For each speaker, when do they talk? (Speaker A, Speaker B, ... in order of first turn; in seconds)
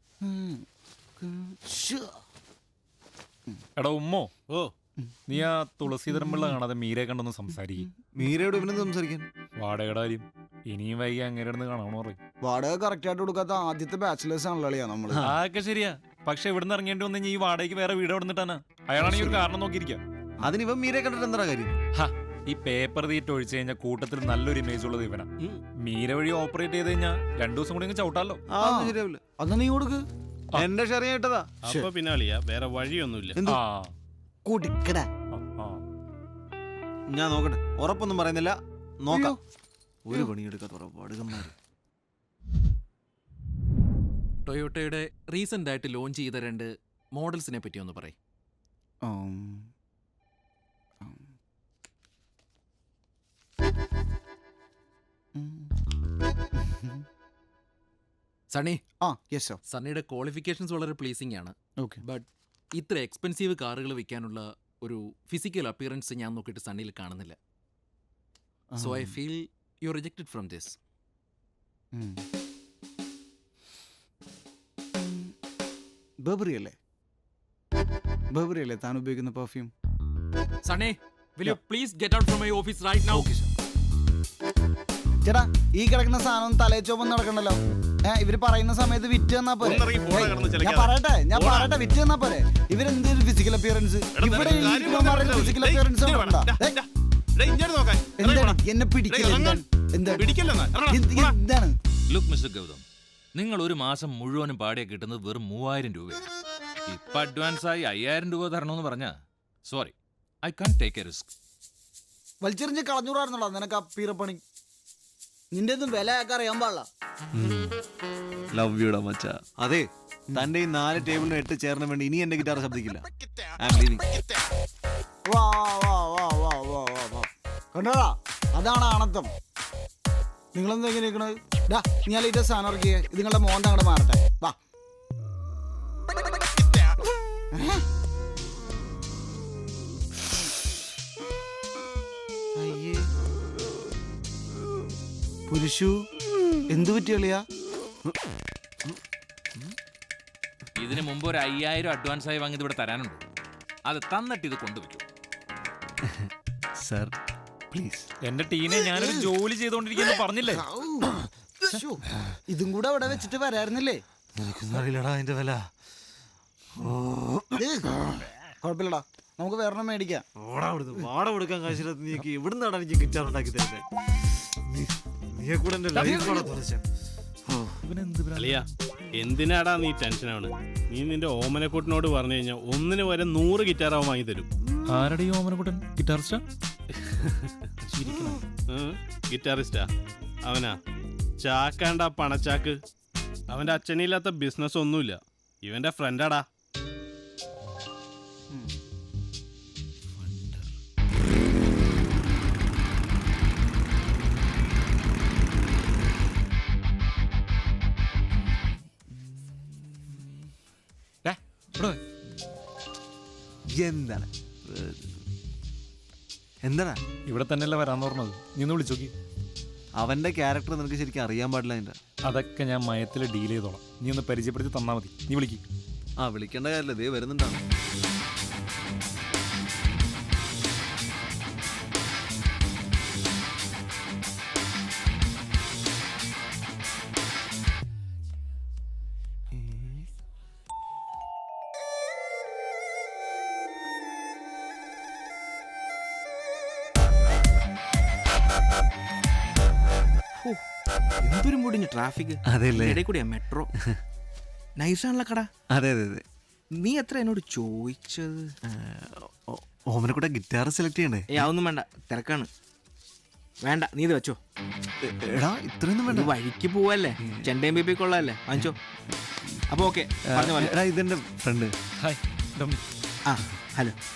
Speaker A: 0.2-0.7, 1.2-2.2, 6.1-6.5, 12.4-15.2, 28.6-30.0, 34.5-35.1, 39.1-39.4, 49.0-49.7, 55.4-55.7, 56.7-57.0, 59.0-59.6, 68.7-69.2, 71.9-72.2, 75.0-75.3, 76.2-76.8, 78.3-79.7, 83.1-83.5, 85.2-96.8, 98.2-100.3, 100.9-101.7, 112.4-114.4, 115.5-116.9, 125.3-129.3, 130.5-134.6, 137.6-137.8, 142.6-143.0, 145.5-145.9, 146.7-147.4, 158.8-159.3, 160.5-164.0, 167.6-168.0, 168.6-170.2, 176.0-176.4
Speaker B: 3.8-4.3, 5.3-7.9, 9.6-12.2, 15.2-20.0, 21.9-25.3, 25.8-28.4, 33.5-33.9, 35.3-35.8, 158.2-160.6, 176.0-176.5, 177.8-178.6, 184.9-186.4, 211.2-212.0, 217.3-219.1, 222.3-225.6, 272.0-272.8
Speaker C: 8.2-9.3, 20.4-21.8, 28.5-29.2, 30.6-31.5, 37.1-39.4, 40.1-41.5, 117.3-117.7, 118.5-123.1, 123.6-124.1, 156.8-157.1, 157.7-158.1, 164.4-165.7, 166.8-167.6, 170.4-173.9, 174.5-176.8, 213.8-215.2, 216.6-217.0, 220.0-222.0, 226.2-227.6, 239.5-240.0, 252.5-253.1, 255.7-256.2, 258.7-261.5, 265.0-266.4, 267.2-267.5, 270.3-271.7
Speaker D: 31.6-33.4, 89.6-91.7, 94.2-96.8, 97.4-98.6, 99.1-99.6, 100.2-101.3, 178.4-184.5, 187.0-189.9, 190.4-190.8, 191.4-192.8, 193.5-196.4
Speaker E: 44.5-48.2, 58.5-58.8, 59.7-67.4, 68.8-70.8, 80.7-83.3
Speaker F: 102.1-106.3, 106.9-111.3, 150.8-153.2, 153.9-155.0
Speaker G: 251.2-253.7, 254.8-255.5, 256.7-258.5, 261.3-262.5, 263.6-264.4, 266.1-268.8, 269.7-270.7, 273.3-274.0